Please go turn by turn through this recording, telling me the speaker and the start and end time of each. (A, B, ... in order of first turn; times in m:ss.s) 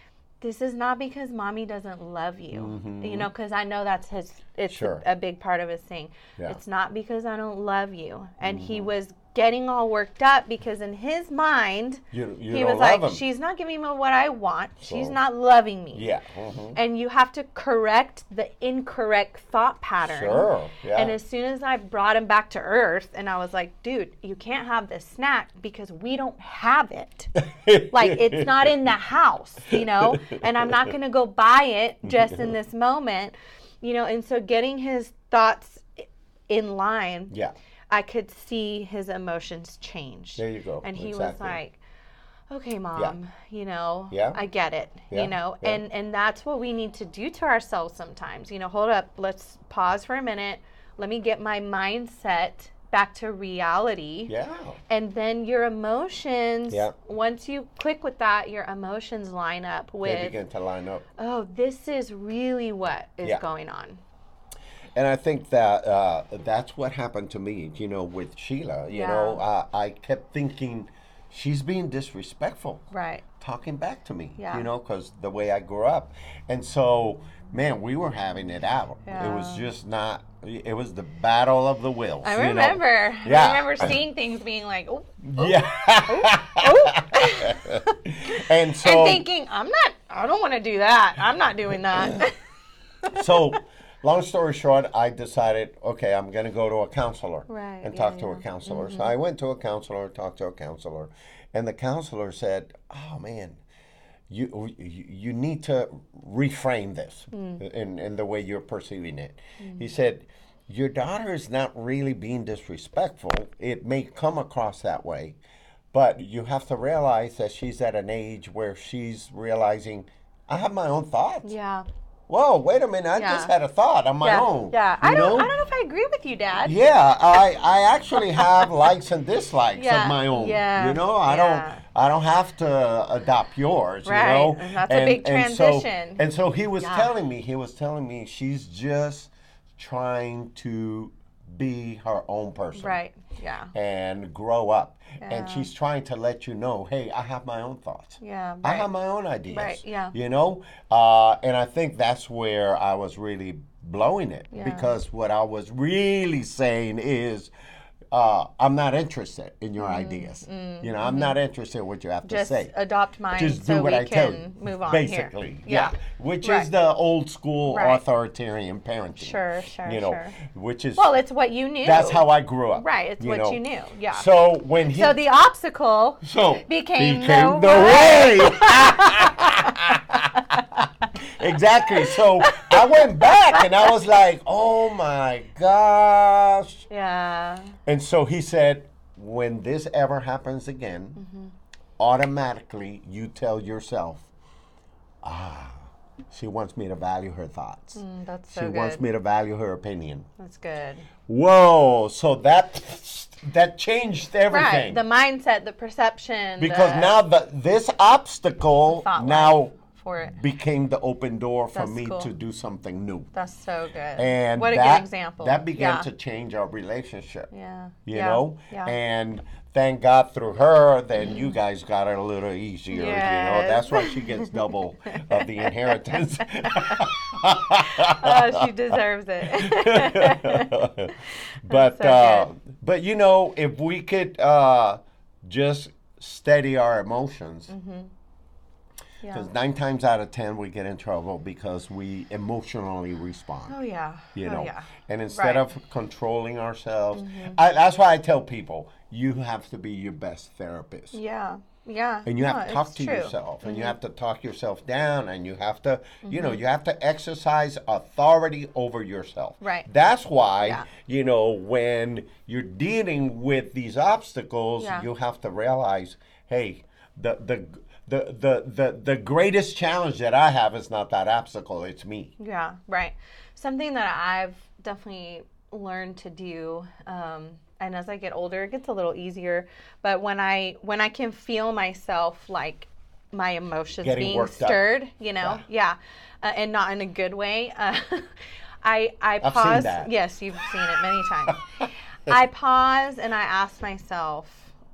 0:00.4-0:16.1 A
0:02.5-0:03.3 B
0:04.7-0:05.0 B
0:08.4-0:08.9 B
0:12.1-0:13.2 B
0:14.8-0:15.2 B
0:15.9-0:16.8 B
0:16.7-0:27.3 A
0:20.0-0:21.1 B
0:27.5-0:28.7 B
0:27.9-0:37.3 A
0:29.7-0:30.7 B
0:32.1-0:32.5 B
0:37.9-0:41.8 A
0:40.4-0:41.6 B
0:42.5-0:54.3 A
0:44.1-0:44.4 B
0:45.1-0:45.8 B
0:54.3-0:54.8 B
0:54.9-1:00.4 A
1:00.0-1:01.0 B
1:01.2-1:04.0 A
1:04.9-1:12.8 B
1:08.9-1:09.4 A
1:12.9-1:13.2 A
1:13.4-1:24.0 B
1:14.4-1:14.6 A
1:19.0-1:19.6 A
1:22.2-1:32.4 A
1:25.2-1:29.2 B
1:33.0-1:33.6 A
1:33.1-1:43.6 B
1:37.5-1:39.1 A
1:44.3-1:55.4 B
1:47.3-1:47.6 A
1:49.6-1:49.9 A
1:55.9-2:01.5 B
2:01.4-2:01.8 A
2:02.3-2:05.5 B
2:03.2-2:03.5 A
2:04.2-2:06.8 A
2:06.6-2:23.0 B
2:08.4-2:08.7 A
2:09.8-2:11.8 A
2:14.0-2:16.2 A
2:16.8-2:17.1 A
2:22.8-2:23.7 A
2:23.7-2:37.5 B
2:25.2-2:25.7 A
2:28.2-2:28.9 A
2:29.5-2:30.1 A
2:34.5-2:34.9 A
2:38.1-2:42.7 B
2:39.8-2:41.4 A
2:42.2-2:46.7 A
2:43.3-2:51.1 B
2:47.7-2:48.0 A
2:49.2-2:50.4 A
2:51.0-2:54.2 A
2:51.8-2:53.6 B
2:54.1-2:55.2 B
2:54.8-3:01.1 A
2:56.2-3:06.9 B
3:01.9-3:03.9 A
3:06.9-3:07.7 A
3:07.8-3:11.2 B
3:11.2-3:11.5 A
3:12.0-3:14.3 B
3:15.2-3:20.3 B
3:17.9-3:19.0 A
3:20.4-3:21.1 A
3:21.3-3:25.0 B
3:24.5-3:27.1 A
3:26.6-3:29.7 B
3:28.9-3:30.4 A
3:30.2-3:33.3 B
3:31.7-3:32.3 A
3:33.3-3:36.1 A
3:34.2-3:37.5 B
3:37.5-3:38.9 A
3:38.0-3:48.7 B
3:41.2-3:41.6 A
3:42.9-3:46.0 A
3:46.6-3:47.1 A
3:47.8-3:52.5 A
3:49.4-3:57.7 B
3:57.7-3:58.1 A
3:59.2-3:59.5 A
3:59.3-4:03.7 B
4:03.7-4:05.6 A
4:04.3-4:11.2 B
4:07.1-4:07.6 A
4:11.1-4:14.0 A
4:12.2-4:32.3 B
4:16.2-4:16.6 A
4:19.6-4:19.9 A
4:24.8-4:25.1 A
4:32.4-4:48.3 A
4:44.0-4:44.8 B
4:48.8-4:51.6 A
4:49.4-4:50.1 B
4:51.5-4:52.3 B
4:52.2-4:54.7 A